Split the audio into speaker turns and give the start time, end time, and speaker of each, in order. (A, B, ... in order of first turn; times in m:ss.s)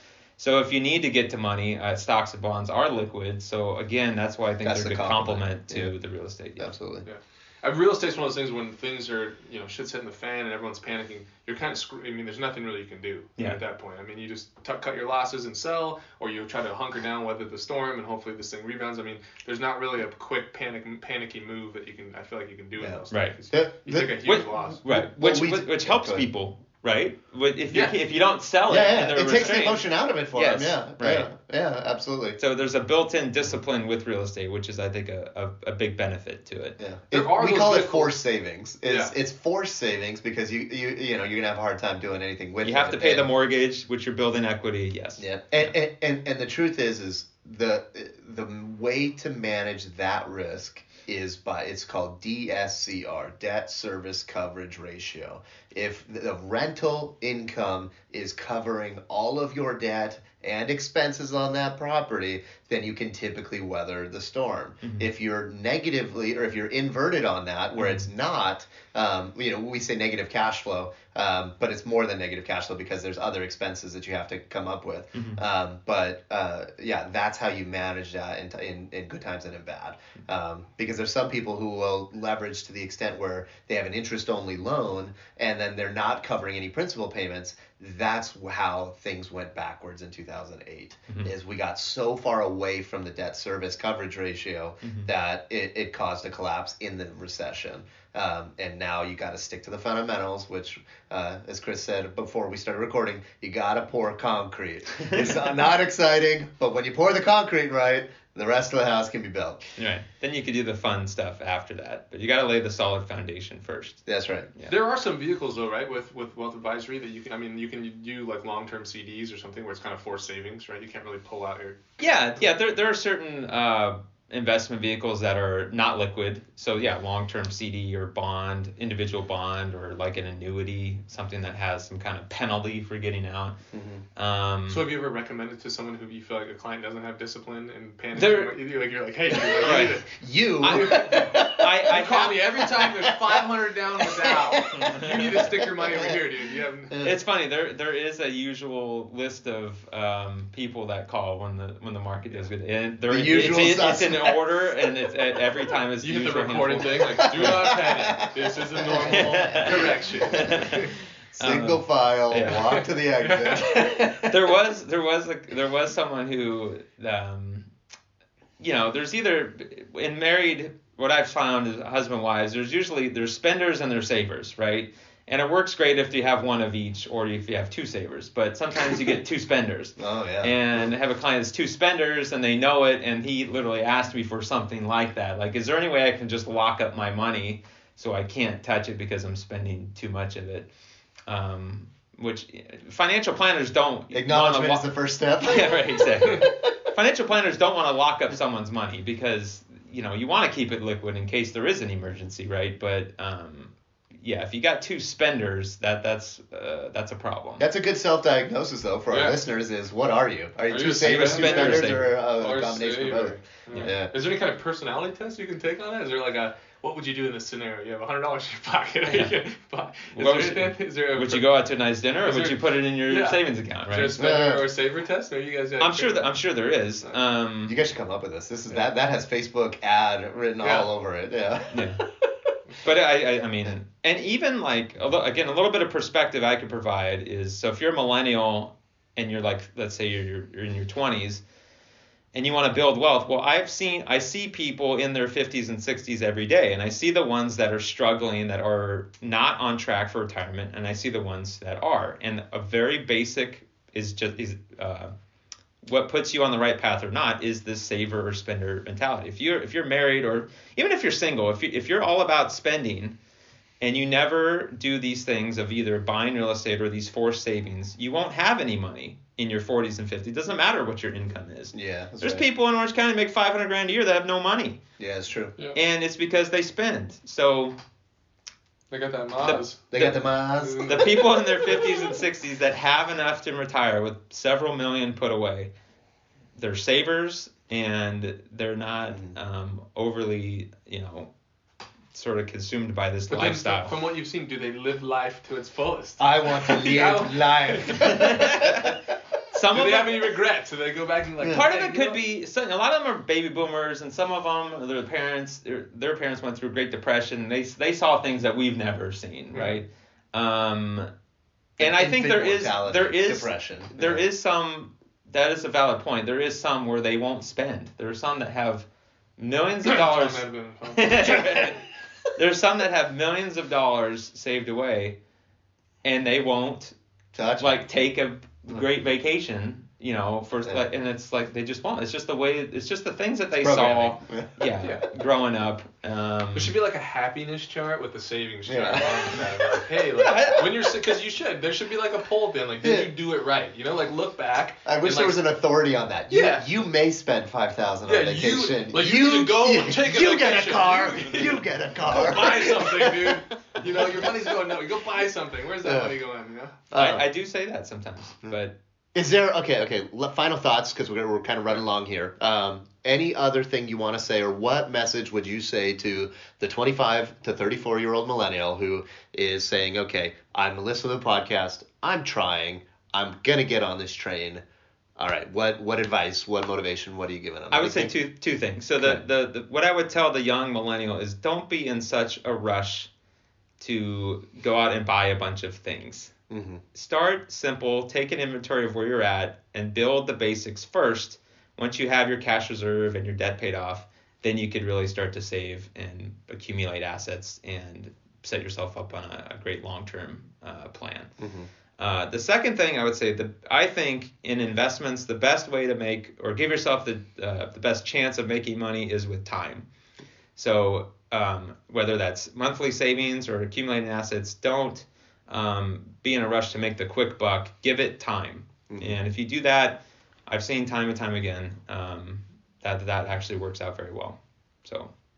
0:00.4-0:06.7 A
0:04.6-0:05.9 B
0:06.6-0:07.1 B
0:07.1-0:24.8 C
0:22.8-0:26.3 B
0:24.2-0:31.3 A
0:28.7-0:32.4 B
0:32.4-0:36.8 A
0:36.8-0:43.3 B
0:37.1-0:38.2 C
0:38.8-0:39.1 C
0:42.6-0:45.7 A
0:45.2-1:49.6 B
1:07.8-1:08.0 A
1:15.1-1:15.4 A
1:34.8-1:35.1 A
1:49.8-1:54.0 A
1:54.1-1:54.5 B
1:54.7-2:01.8 C
2:02.0-2:13.6 A
2:13.7-2:14.0 B
2:14.2-2:14.9 A
2:14.7-2:27.0 C
2:18.2-2:18.6 A
2:19.3-2:22.0 B
2:19.6-2:20.0 A
2:20.6-2:22.4 A
2:22.6-2:23.4 B
2:24.0-2:26.2 B
2:24.8-2:25.1 A
2:27.0-2:37.7 A
2:33.1-2:34.4 B
2:36.0-2:40.9 C
2:37.2-2:40.4 B
2:39.1-2:40.8 A
2:41.4-2:44.5 B
2:41.4-2:42.8 A
2:42.5-2:43.8 C
2:44.3-2:47.7 A
2:48.6-3:10.7 A
3:00.0-3:00.9 B
3:11.3-3:14.8 A
3:14.1-3:16.7 B
3:15.4-3:27.7 A
3:27.6-3:34.1 B
3:29.1-3:29.4 C
3:30.7-3:41.6 C
3:31.0-3:32.1 A
3:39.1-3:39.4 A
3:40.1-3:44.2 A
3:42.2-3:46.3 C
3:44.2-3:44.6 B
3:45.8-3:47.8 A
3:47.7-3:52.5 B
3:50.6-3:50.9 C
3:51.7-3:52.0 A
3:52.8-4:01.4 A
4:02.4-4:15.1 A
4:15.8-4:23.2 A
4:23.8-4:34.8 A
4:31.7-4:32.4 B
4:35.0-4:35.5 B
4:35.8-4:37.8 A
4:38.9-4:40.0 C
4:39.4-4:40.2 A
4:39.9-4:41.2 B
4:40.6-4:41.8 C
4:40.8-4:45.7 A
4:46.6-4:51.3 A
4:49.1-4:49.4 B
4:52.1-4:53.9 A
4:53.3-4:58.4 C
4:56.2-4:59.0 B
4:58.0-4:59.0 A
4:59.5-5:00.2 A
4:59.7-5:02.2 C
5:01.4-5:01.7 B
5:01.5-5:11.1 A
5:09.5-5:09.8 C
5:11.8-5:18.9 A
5:11.8-5:14.2 B
5:19.4-5:21.8 A
5:19.8-5:21.8 C
5:22.4-5:25.2 A
5:26.0-5:27.0 A
5:27.3-5:27.8 B
5:27.6-5:36.7 A
5:33.6-5:34.6 B
5:36.6-5:45.4 C
5:38.7-5:39.8 B
5:40.2-5:41.0 A
5:42.8-5:43.1 B
5:44.8-5:53.4 B
5:46.3-5:46.7 C
5:48.1-5:56.9 C
5:54.0-5:54.3 B
5:55.8-5:56.1 B
5:56.9-5:57.2 B
5:56.9-5:58.8 A
5:59.2-6:14.6 B
6:15.2-6:18.1 B
6:17.7-6:23.1 A
6:23.8-6:26.3 A
6:26.5-6:26.8 B
6:26.9-6:41.4 A
6:41.4-6:41.7 B
6:42.0-6:49.9 A
6:50.6-7:05.1 A
6:58.9-6:59.2 B